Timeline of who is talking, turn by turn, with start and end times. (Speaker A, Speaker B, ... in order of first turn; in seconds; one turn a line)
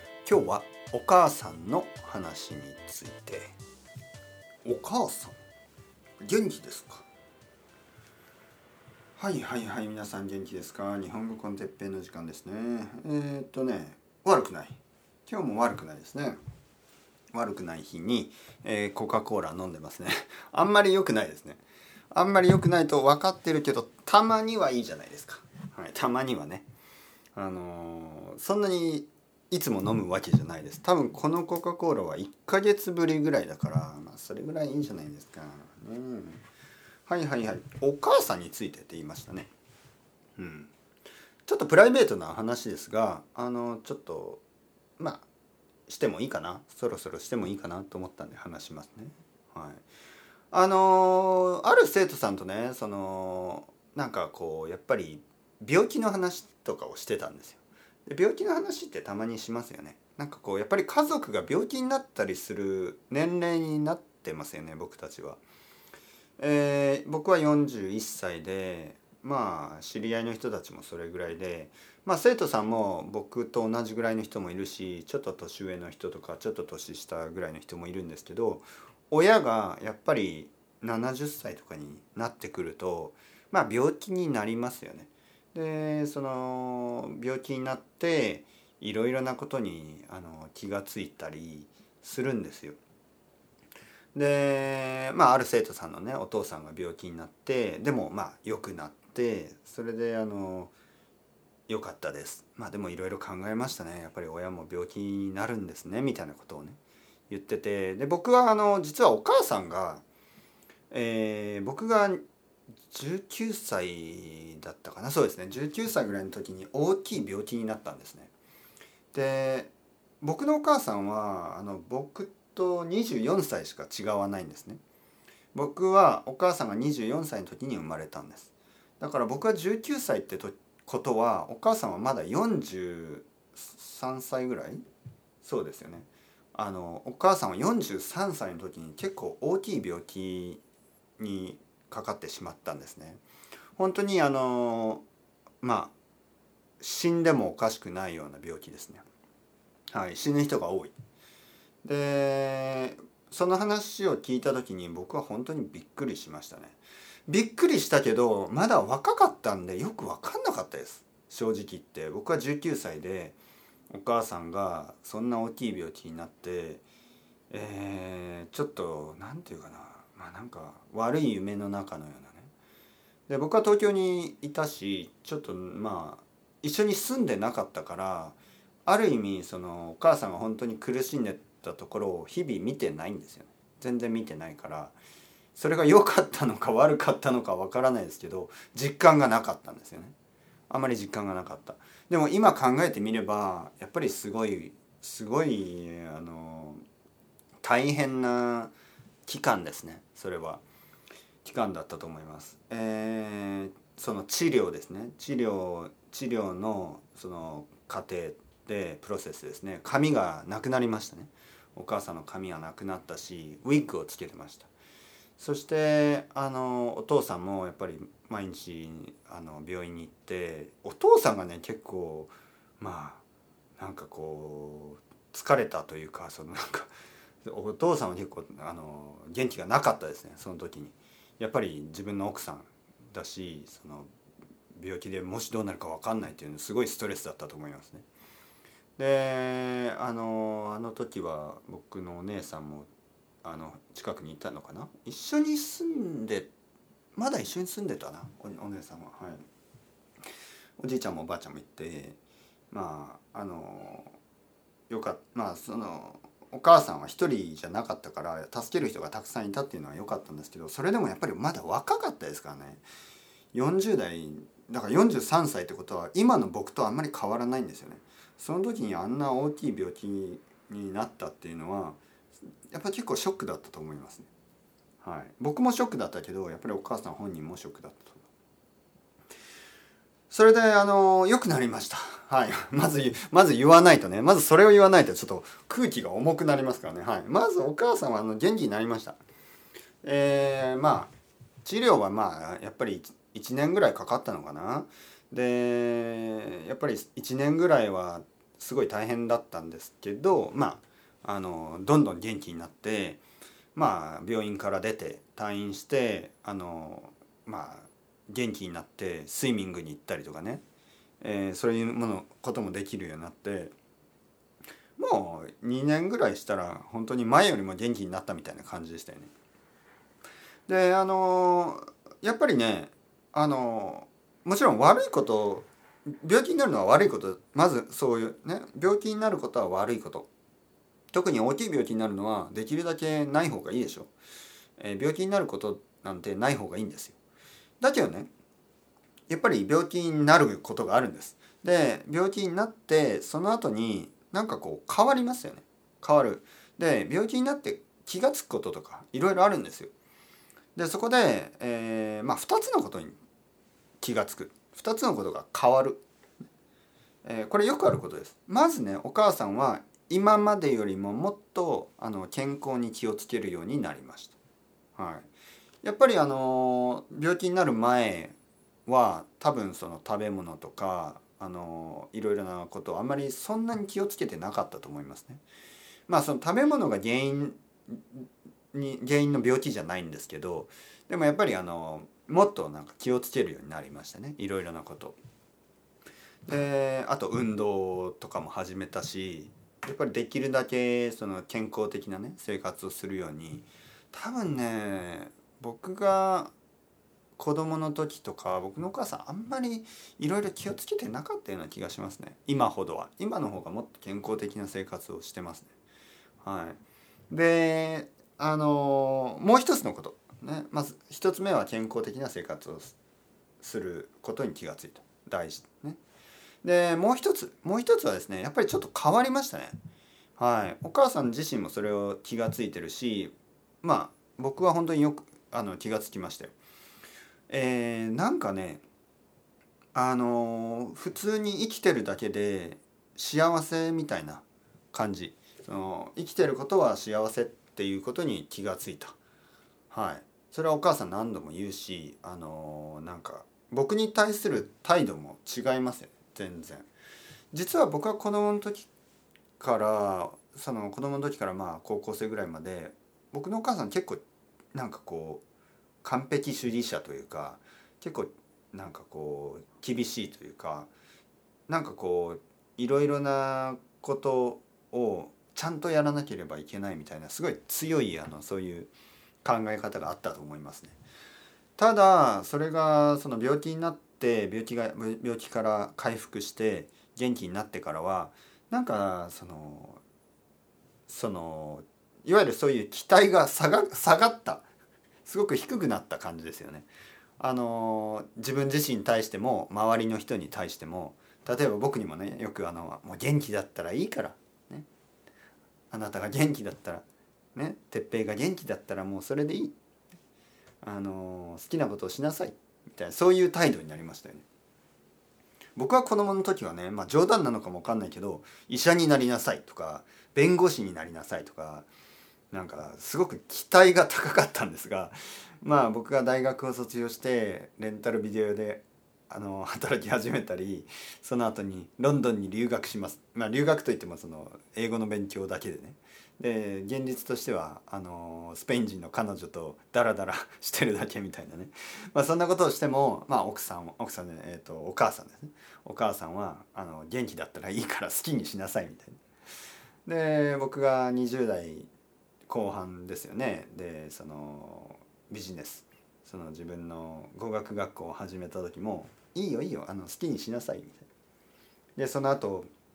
Speaker A: 0.2-3.5
Speaker A: 4.6-5.3
Speaker A: 6.2-7.0
Speaker A: 9.2-16.4
Speaker A: 17.3-26.6
Speaker A: 27.3-36.4
Speaker A: 37.0-39.5
Speaker A: 40.4-40.7
Speaker A: 41.5-44.4
Speaker A: 45.0-45.2
Speaker A: 45.9-49.8
Speaker A: 50.5-65.4
Speaker A: 66.4-92.8
Speaker A: 94.1-100.7
Speaker A: 101.7-106.8
Speaker A: 107.3-110.0
Speaker A: 110.9-112.2
Speaker A: 112.9-118.3
Speaker A: 119.1-124.8
Speaker A: 125.5-134.8
Speaker A: 135.4-140.6
Speaker A: 141.2-143.2
Speaker A: 143.8-145.0
Speaker A: 145.6-145.9
Speaker A: 146.8-149.0
Speaker A: 149.9-150.9
Speaker A: 151.8-163.4
Speaker A: 163.9-166.8
Speaker A: 167.5-172.5
Speaker A: 173.3-184.9
Speaker A: 185.5-190.1
Speaker A: 190.7-196.8
Speaker A: 197.6-198.7
Speaker A: 199.2-200.6
Speaker A: 201.4-214.7
Speaker A: 215.4-223.2
Speaker A: 223.8-226.9
Speaker A: 227.4-234.1
Speaker A: 234.7-238.1
Speaker A: 239.0-242.9
Speaker A: 243.4-246.5
Speaker A: 247.1-249.4
Speaker A: 250.8-252.2
Speaker A: 252.7-254.2
Speaker A: 254.9-262.8
Speaker A: 263.5-272.0
Speaker A: 272.7-274.3
Speaker A: 275.0-278.2
Speaker A: 280.3-289.2
Speaker A: 290.0-291.1
Speaker A: 291.6-303.2
Speaker A: 303.7-310.6
Speaker A: 311.2-313.7
Speaker A: 315.0-319.3
Speaker A: 320.7-330.3
Speaker A: 331.1-334.1
Speaker A: 334.8-337.2
Speaker A: 337.8-338.3
Speaker A: 339.3-349.9
Speaker A: 350.8-353.2
Speaker A: 354.0-356.0
Speaker A: 357.2-364.4
Speaker A: 364.9-365.3
Speaker A: 365.8-368.3
Speaker A: 368.9-375.4
Speaker A: 376.1-385.2
Speaker A: 386.5-396.5
Speaker A: 397.4-405.7
Speaker A: 406.4-406.8
Speaker A: 407.3-412.9
Speaker A: 413.6-416.0
Speaker A: 416.6-419.8
Speaker A: 420.4-426.5
Speaker A: 427.5-428.8
Speaker A: 429.9-439.2
Speaker A: 439.9-446.9
Speaker A: 447.5-448.9
Speaker A: 449.6-454.2
Speaker A: 454.7-455.4
Speaker A: 456.0-460.9
Speaker A: 461.7-468.9
Speaker A: 469.4-471.0
Speaker A: 471.8-480.0
Speaker A: 481.1-484.6
Speaker A: 485.2-486.9
Speaker A: 487.4-494.9
Speaker A: 495.9-499.8
Speaker A: 500.8-504.4
Speaker A: 505.8-511.9
Speaker A: 512.5-539.2
Speaker A: 540.0-541.9
Speaker A: 542.5-551.0
Speaker A: 552.0-552.7